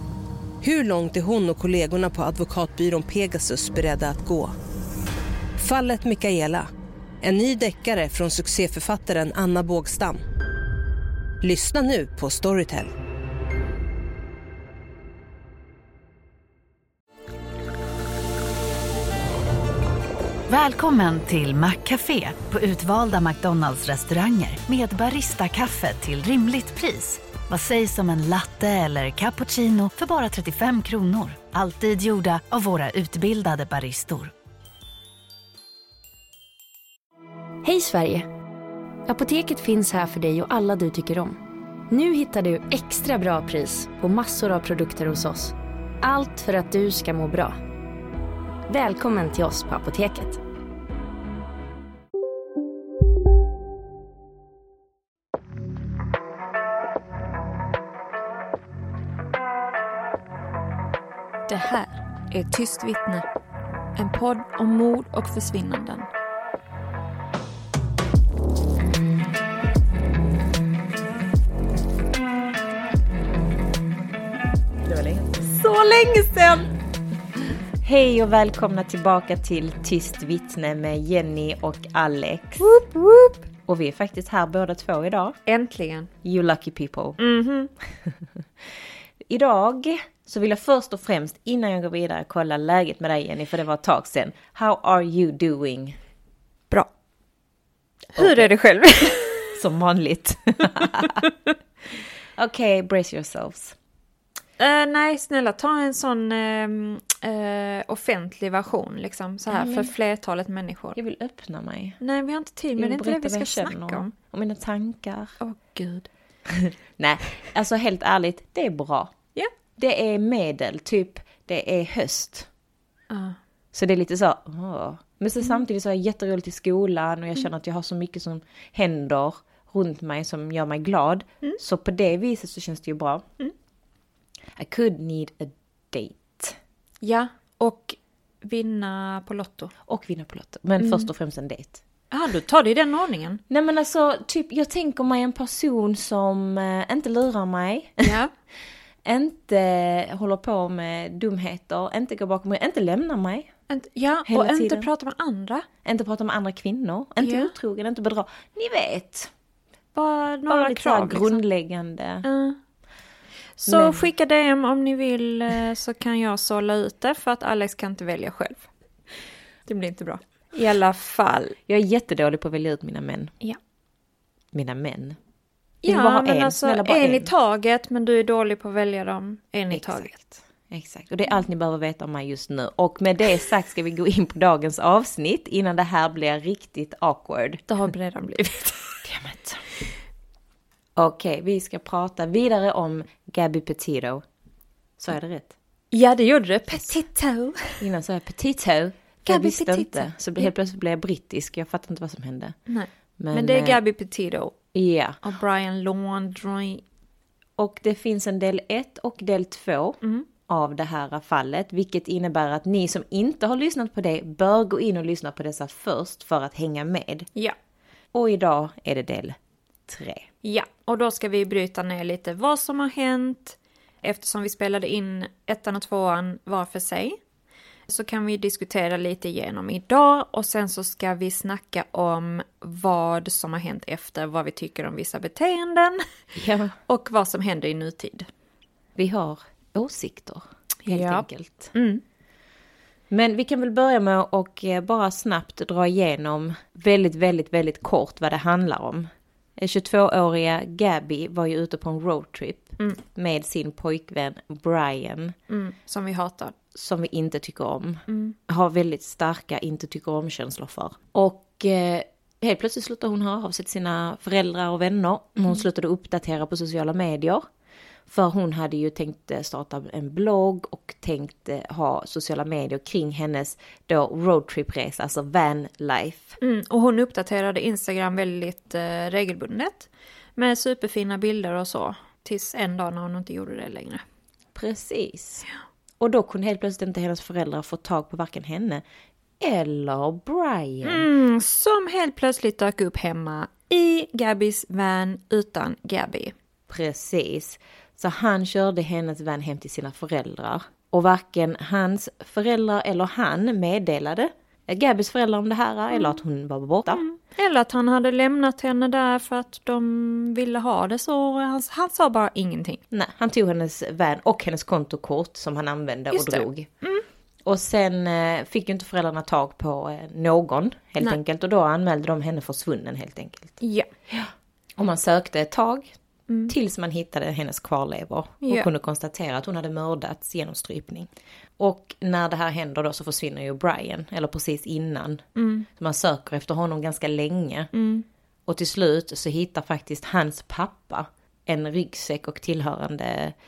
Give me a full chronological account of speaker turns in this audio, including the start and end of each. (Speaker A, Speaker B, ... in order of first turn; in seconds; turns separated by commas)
Speaker A: 0.6-4.5, Speaker A: 5.6-6.7, Speaker A: 7.2-10.2, Speaker A: 11.4-12.9, Speaker B: 20.5-34.3, Speaker C: 37.6-38.3, Speaker C: 39.0-47.6, Speaker C: 48.7-50.4, Speaker D: 61.5-63.2, Speaker D: 64.0-66.1, Speaker E: 74.8-76.7, Speaker E: 77.8-82.7, Speaker D: 82.6-83.5, Speaker E: 83.7-85.4, Speaker D: 85.5-86.1, Speaker E: 86.2-87.2, Speaker D: 87.2-87.7, Speaker E: 89.3-96.0, Speaker D: 98.1-99.5, Speaker E: 98.2-98.5, Speaker E: 99.5-101.2, Speaker E: 102.4-103.8, Speaker D: 104.6-111.0, Speaker E: 109.5-109.9, Speaker E: 111.0-112.0, Speaker D: 112.0-114.1, Speaker E: 112.8-115.4, Speaker D: 115.4-116.1, Speaker E: 116.5-119.1, Speaker E: 119.8-122.5, Speaker D: 123.1-123.4, Speaker E: 123.7-133.3, Speaker E: 134.6-136.6, Speaker D: 137.0-139.7, Speaker E: 139.8-141.8, Speaker D: 140.8-141.1, Speaker D: 142.1-143.4, Speaker E: 143.5-148.2, Speaker D: 148.0-148.3, Speaker E: 149.0-153.5, Speaker D: 153.7-155.7, Speaker E: 154.2-154.9, Speaker E: 155.8-159.3, Speaker D: 157.2-157.5, Speaker D: 159.9-161.4, Speaker E: 160.5-162.3, Speaker D: 162.2-162.6, Speaker D: 163.6-168.7, Speaker E: 163.7-164.1, Speaker D: 169.7-171.6, Speaker E: 171.7-173.3, Speaker E: 174.5-175.2, Speaker D: 175.8-180.4, Speaker E: 175.8-177.3, Speaker E: 179.7-180.1, Speaker E: 180.7-187.6, Speaker D: 187.7-189.0, Speaker E: 189.0-189.6, Speaker E: 191.0-194.2, Speaker E: 195.0-195.5, Speaker D: 195.9-197.8, Speaker E: 197.8-202.6, Speaker D: 199.3-200.5, Speaker D: 202.7-204.5, Speaker E: 203.2-203.8, Speaker E: 204.7-205.2, Speaker D: 205.2-206.8, Speaker E: 207.6-217.3, Speaker D: 210.0-210.3, Speaker E: 218.1-220.2, Speaker D: 220.4-227.2, Speaker D: 227.9-236.0, Speaker E: 236.3-236.8, Speaker D: 236.9-238.3, Speaker E: 239.0-241.7, Speaker D: 240.8-242.0, Speaker E: 243.1-255.3, Speaker D: 255.5-256.6, Speaker E: 256.7-267.4, Speaker D: 258.1-258.4, Speaker E: 268.1-276.4, Speaker D: 276.4-284.0, Speaker E: 284.5-285.4, Speaker E: 286.0-288.8, Speaker E: 289.4-291.1, Speaker D: 290.8-296.3, Speaker E: 296.7-307.0, Speaker D: 306.9-312.8, Speaker E: 312.9-316.7, Speaker D: 316.1-317.0, Speaker E: 317.4-325.9, Speaker D: 323.6-323.9, Speaker E: 326.5-337.7, Speaker D: 328.4-328.7, Speaker D: 335.4-335.7, Speaker D: 337.7-338.0, Speaker E: 338.4-343.4